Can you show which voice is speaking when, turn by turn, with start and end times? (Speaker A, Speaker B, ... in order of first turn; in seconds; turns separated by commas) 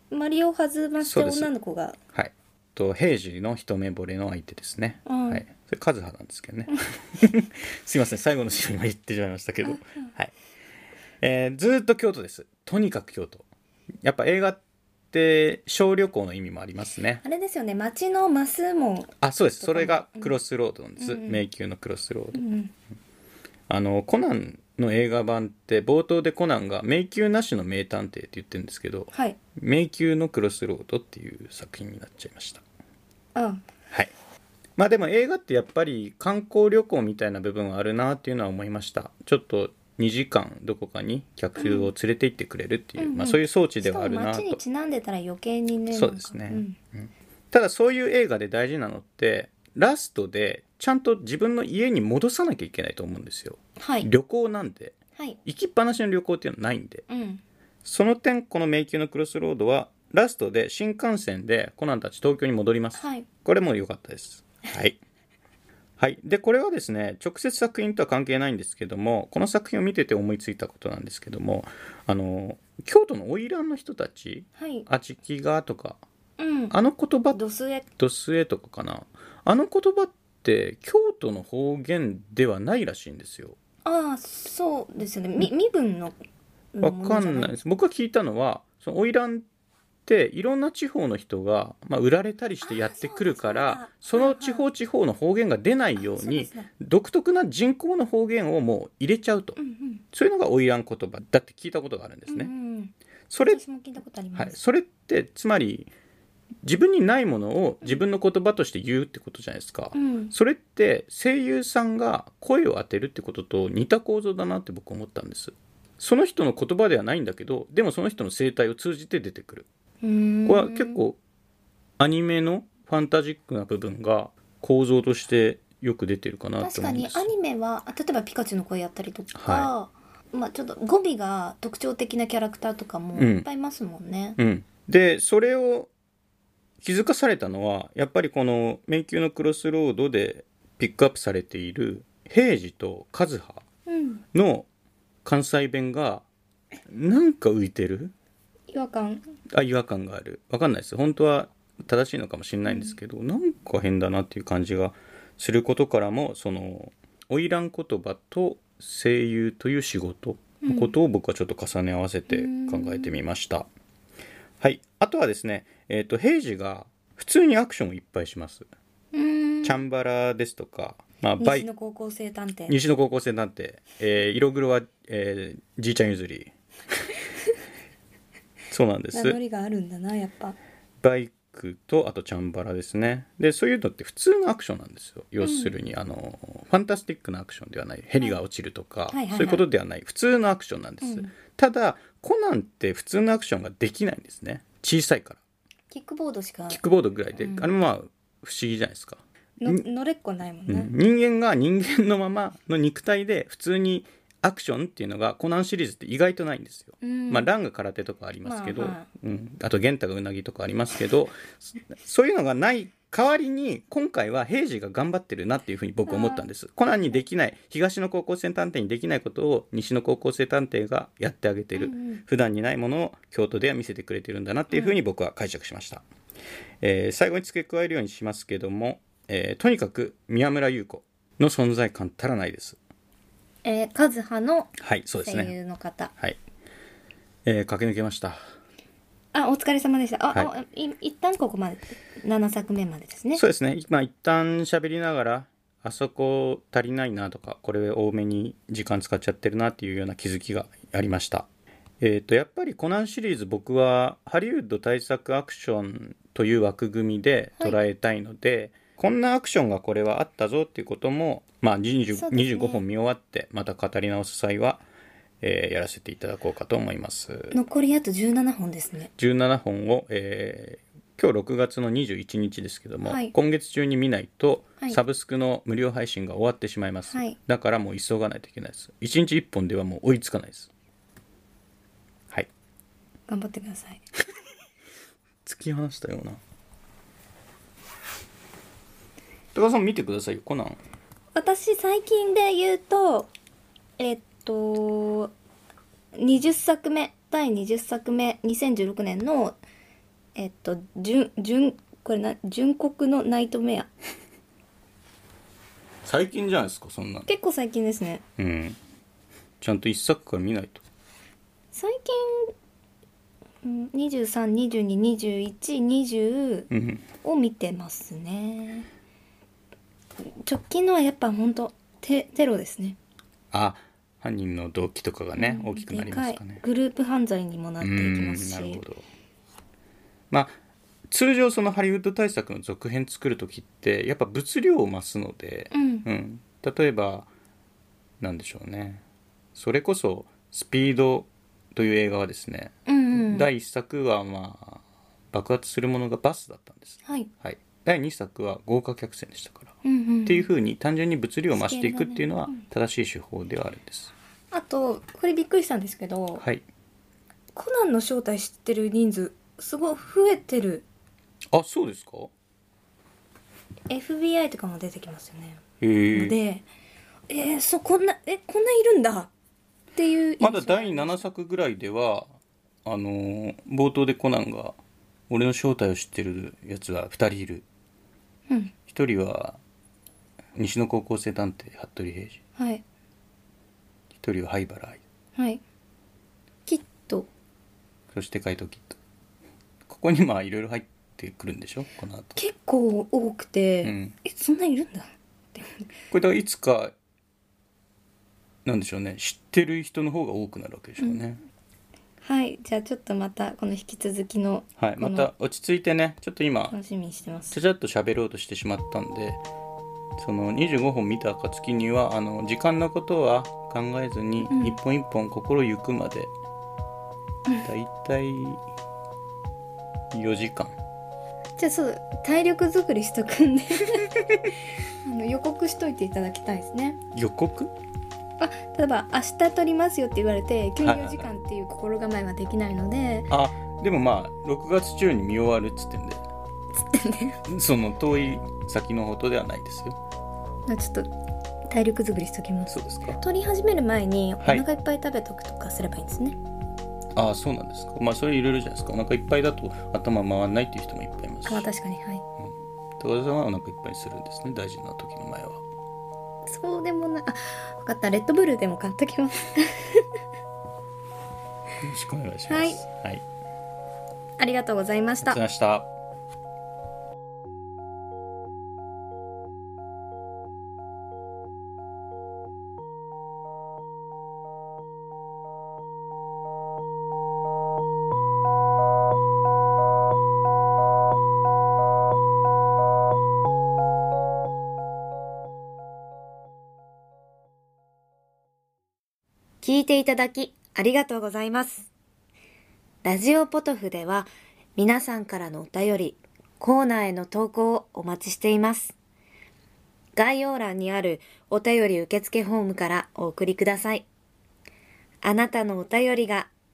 Speaker A: 0.1-2.0, Speaker B: 1.0-1.5, Speaker B: 2.1-10.3, Speaker A: 5.0-5.4, Speaker A: 9.6-10.1, Speaker B: 11.2-13.4, Speaker B: 14.0-14.6, Speaker B: 15.1-17.2, Speaker A: 17.2-20.3, Speaker B: 19.2-22.4, Speaker A: 21.0-21.4, Speaker A: 22.3-22.7, Speaker B: 23.7-32.6, Speaker A: 29.1-29.4, Speaker A: 33.3-33.6, Speaker B: 34.8-44.6, Speaker A: 41.6-41.9, Speaker A: 43.0-46.8, Speaker B: 45.9-57.0, Speaker A: 53.8-54.1, Speaker A: 57.1-57.4, Speaker B: 57.8-65.0, Speaker A: 63.0-63.3, Speaker B: 66.0-76.0, Speaker A: 74.6-74.8, Speaker A: 76.4-76.7, Speaker B: 76.7-77.4, Speaker A: 77.3-77.8, Speaker B: 78.0-83.6, Speaker A: 83.8-86.2, Speaker A: 86.7-87.6, Speaker B: 86.8-89.4, Speaker B: 90.0-99.6, Speaker A: 92.6-94.6, Speaker A: 96.0-96.7, Speaker A: 99.6-100.0, Speaker B: 100.1-102.5, Speaker A: 102.3-102.9, Speaker B: 103.3-103.6, Speaker A: 103.5-104.6, Speaker B: 104.3-105.9, Speaker B: 106.6-119.7, Speaker A: 109.9-110.3, Speaker A: 120.0-121.0, Speaker B: 120.5-121.2, Speaker B: 122.0-127.3, Speaker A: 126.6-134.4, Speaker B: 129.3-129.7, Speaker B: 133.1-133.4, Speaker B: 134.4-135.9, Speaker B: 136.8-143.6, Speaker A: 143.8-144.2, Speaker B: 144.3-144.7, Speaker B: 145.2-146.2, Speaker B: 146.9-148.1, Speaker A: 148.7-149.2, Speaker B: 149.5-163.7, Speaker A: 152.7-152.9, Speaker A: 160.6-160.9, Speaker A: 162.3-163.2, Speaker B: 164.6-168.7, Speaker A: 169.1-169.8, Speaker B: 169.6-171.7, Speaker A: 171.4-172.8, Speaker B: 172.7-176.5, Speaker B: 178.7-179.4, Speaker A: 179.1-180.6, Speaker B: 181.0-195.4, Speaker A: 185.4-185.7, Speaker A: 189.1-189.6, Speaker A: 191.0-191.3, Speaker A: 195.9-196.8, Speaker B: 196.7-199.8, Speaker A: 197.4-197.7, Speaker A: 199.6-200.9, Speaker B: 200.7-226.0, Speaker A: 207.0-207.5, Speaker A: 208.4-209.1, Speaker A: 216.1-216.4, Speaker A: 221.8-222.2, Speaker A: 224.7-225.0, Speaker B: 226.8-232.8, Speaker A: 233.6-236.1, Speaker B: 234.8-235.5, Speaker B: 237.4-238.4, Speaker A: 239.3-243.4, Speaker B: 243.3-251.5, Speaker B: 252.0-264.8, Speaker A: 262.1-262.8, Speaker B: 265.4-267.6, Speaker A: 267.5-269.1, Speaker B: 269.2-280.7, Speaker A: 273.1-273.3, Speaker A: 283.3-284.0, Speaker B: 285.4-286.4, Speaker B: 289.5-290.8, Speaker A: 291.3-293.3, Speaker A: 294.0-295.3, Speaker A: 296.1-299.6, Speaker A: 300.3-303.9, Speaker B: 306.0-307.3, Speaker A: 307.3-308.2, Speaker B: 308.4-308.8, Speaker B: 309.6-310.8, Speaker A: 311.7-312.5, Speaker A: 313.6-316.7, Speaker B: 316.7-317.0, Speaker A: 317.2-318.9, Speaker A: 320.4-323.0, Speaker B: 323.5-326.6, Speaker A: 325.4-328.8, Speaker B: 327.8-329.0, Speaker B: 331.1-337.3, Speaker A: 335.7-336.1, Speaker B: 338.2-339.0, Speaker B: 339.5-344.8, Speaker A: 342.9-343.5, Speaker B: 345.3-354.1, Speaker A: 347.0-347.3, Speaker A: 349.8-350.5, Speaker A: 351.5-352.6, Speaker A: 354.5-356.4, Speaker B: 356.4-356.6, Speaker A: 357.5-360.9, Speaker B: 361.5-362.3, Speaker A: 363.9-365.6, Speaker B: 365.8-366.3, Speaker A: 366.1-366.6, Speaker A: 367.3-369.3, Speaker A: 369.9-371.2, Speaker B: 370.4-372.3, Speaker B: 372.8-374.8, Speaker B: 375.3-377.6, Speaker A: 378.5-378.7, Speaker B: 378.9-379.6, Speaker B: 380.6-382.4, Speaker A: 382.6-382.8, Speaker B: 384.1-385.0, Speaker A: 385.4-385.6, Speaker A: 386.7-387.3, Speaker B: 388.1-389.0, Speaker B: 389.9-392.4, Speaker A: 392.4-395.9, Speaker B: 393.8-394.2, Speaker B: 396.1-396.9, Speaker B: 398.6-401.4, Speaker A: 402.2-405.3, Speaker B: 404.8-406.8, Speaker A: 406.7-407.6, Speaker B: 407.5-409.4, Speaker B: 410.2-416.3, Speaker A: 414.4-414.8, Speaker B: 417.6-418.6, Speaker B: 420.1-420.7, Speaker A: 421.6-424.2, Speaker A: 425.0-427.0, Speaker B: 427.1-427.7, Speaker A: 428.4-433.3, Speaker B: 430.8-431.3, Speaker B: 433.3-436.2, Speaker A: 436.7-437.4, Speaker B: 437.4-440.0, Speaker A: 440.7-441.1, Speaker A: 441.7-446.4, Speaker B: 442.7-443.2, Speaker B: 447.1-451.7, Speaker A: 451.5-452.2, Speaker B: 452.4-455.6, Speaker A: 456.4-460.1, Speaker B: 461.8-463.2, Speaker A: 462.5-462.8, Speaker A: 464.4-465.4, Speaker B: 465.2-465.9, Speaker A: 489.6-491.9, Speaker A: 493.0-498.9, Speaker A: 500.1-504.1, Speaker A: 505.2-506.5